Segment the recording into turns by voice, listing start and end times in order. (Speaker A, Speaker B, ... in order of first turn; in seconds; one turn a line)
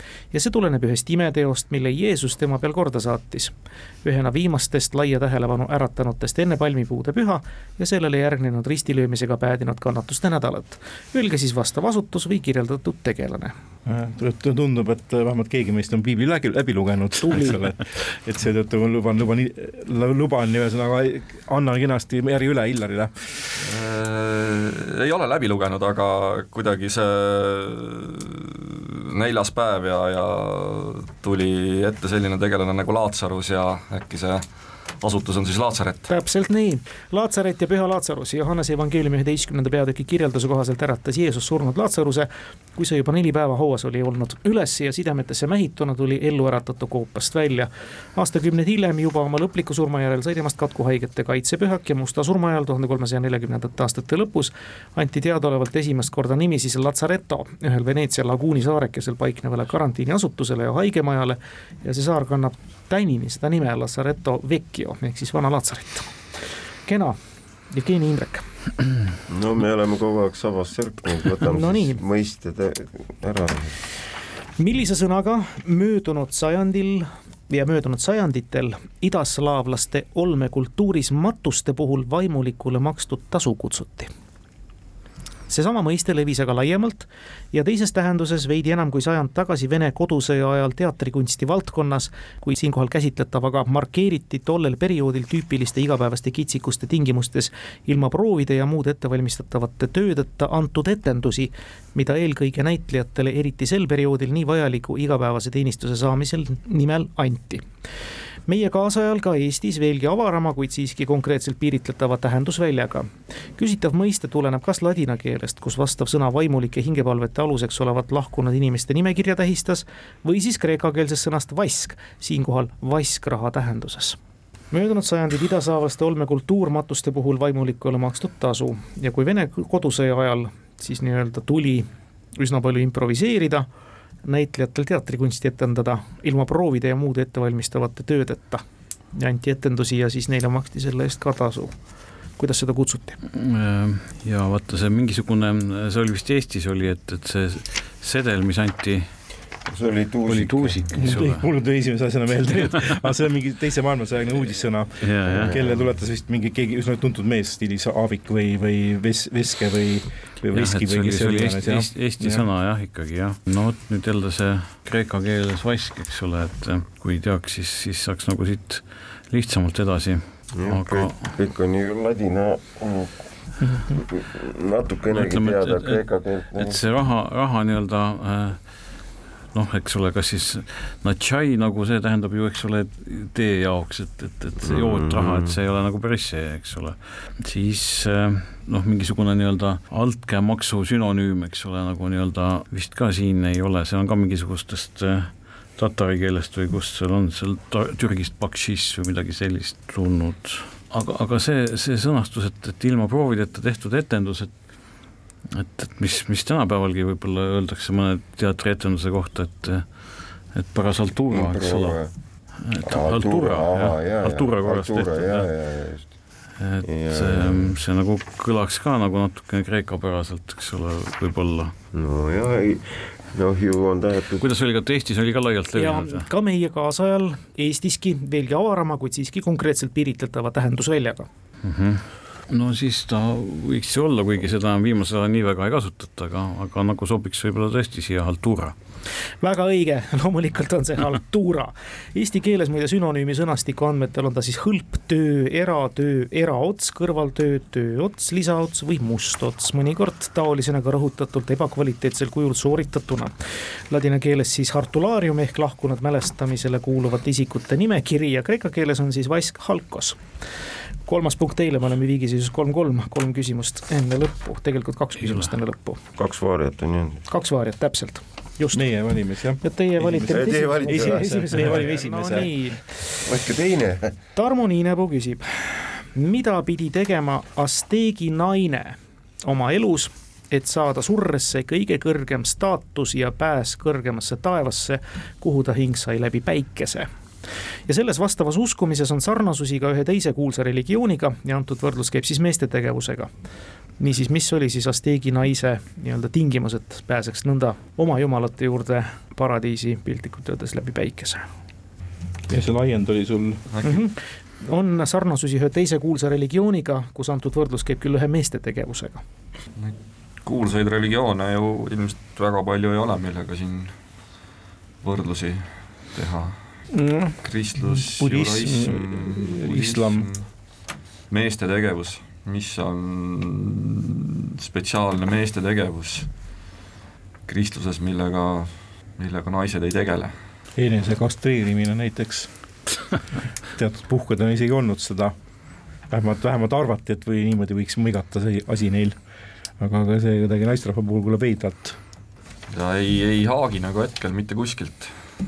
Speaker A: 0.3-13.6
Speaker B: 13.9-23.4
Speaker C: 23.6-34.5
Speaker C: 35.0-36.1
Speaker A: 36.1-66.1
Speaker A: 66.9-67.2
Speaker A: 67.7-68.5
Speaker D: 69.3-73.8
Speaker A: 71.5-72.0
Speaker A: 74.6-84.1
Speaker A: 85.5-107.6
Speaker A: 108.5-124.2
Speaker A: 124.7-133.7
Speaker A: 134.2-141.8
Speaker A: 142.4-143.2
Speaker E: 143.3-149.1
Speaker D: 149.7-151.2
Speaker E: 150.3-151.5
Speaker B: 151.0-162.4
Speaker E: 155.0-155.6
Speaker D: 155.3-155.8
Speaker E: 160.5-171.3
Speaker D: 170.5-176.8
Speaker E: 175.1-178.9
Speaker E: 179.5-204.6
Speaker D: 184.6-185.6
Speaker E: 205.5-212.0
Speaker D: 211.3-212.1
Speaker E: 212.6-215.5
Speaker D: 212.8-216.2
Speaker E: 216.6-221.7
Speaker D: 216.8-217.8
Speaker D: 221.9-224.5
Speaker E: 224.4-226.3
Speaker A: 225.7-231.3
Speaker E: 231.6-238.8
Speaker A: 239.4-253.3
Speaker A: 253.9-260.2
Speaker A: 261.1-266.0
Speaker E: 265.2-265.5
Speaker D: 266.2-267.2
Speaker A: 267.3-268.9
Speaker B: 268.7-272.5
Speaker A: 269.6-272.9
Speaker D: 270.3-271.9
Speaker D: 273.2-274.1
Speaker A: 274.4-287.1
Speaker A: 287.9-293.3
Speaker A: 294.0-301.5
Speaker B: 302.5-303.6
Speaker C: 303.7-304.0
Speaker A: 303.8-309.2
Speaker C: 309.8-314.0
Speaker C: 315.0-316.6
Speaker B: 316.9-320.3
Speaker C: 317.4-320.5
Speaker C: 321.3-326.3
Speaker C: 327.5-330.4
Speaker B: 330.8-332.5
Speaker B: 333.8-335.4
Speaker B: 336.1-339.2
Speaker B: 339.8-342.0
Speaker C: 342.7-345.1